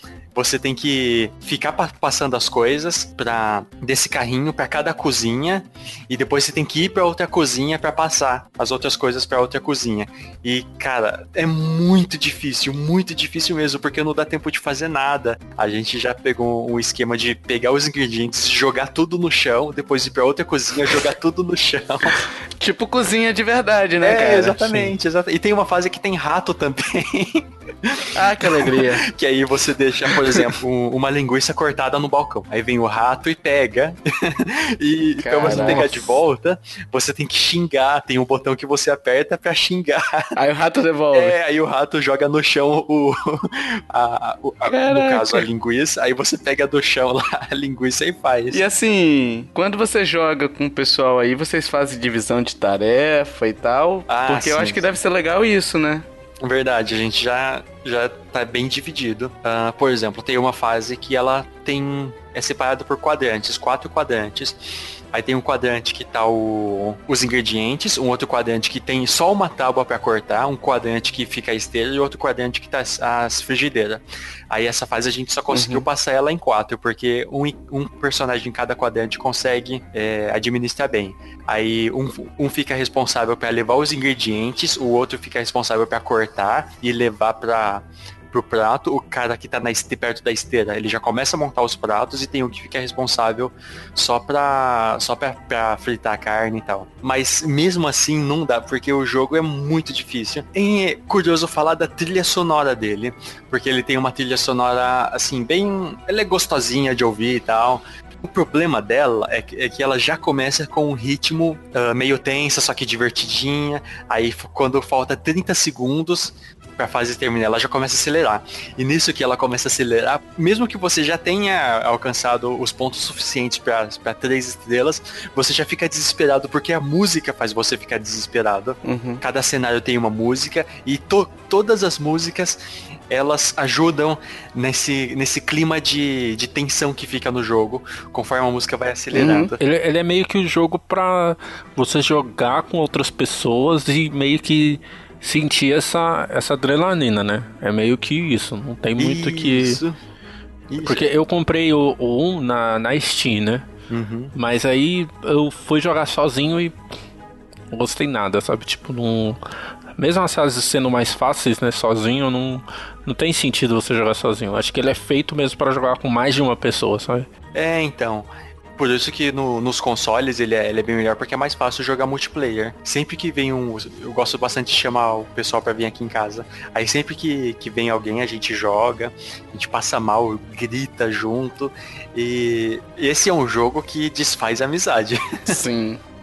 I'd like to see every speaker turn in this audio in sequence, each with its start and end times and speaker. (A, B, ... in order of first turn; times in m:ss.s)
0:00.4-0:22.3 A
0:22.6-0:25.0 B
0:24.0-0:40.3 A
0:28.2-0:29.1 B
0:30.1-0:30.5 B
0:35.2-0:36.2 B
0:40.4-0:41.4 B
0:41.1-0:48.6 A
0:44.7-0:45.5 B
0:48.5-0:56.1 B
0:54.1-0:54.9 A
0:56.4-2:19.6 A
1:15.5-1:15.9 B
2:08.8-2:09.2 B
2:19.1-2:19.5 B
2:19.6-2:29.8 C
2:29.0-2:30.0 A
2:30.7-2:31.1 A
2:30.8-2:33.7 C
2:33.9-2:34.3 A
2:34.4-2:36.8 C
2:37.7-2:39.4 C
2:40.0-2:47.3 C
2:47.5-3:05.6 A
3:05.5-3:06.0 B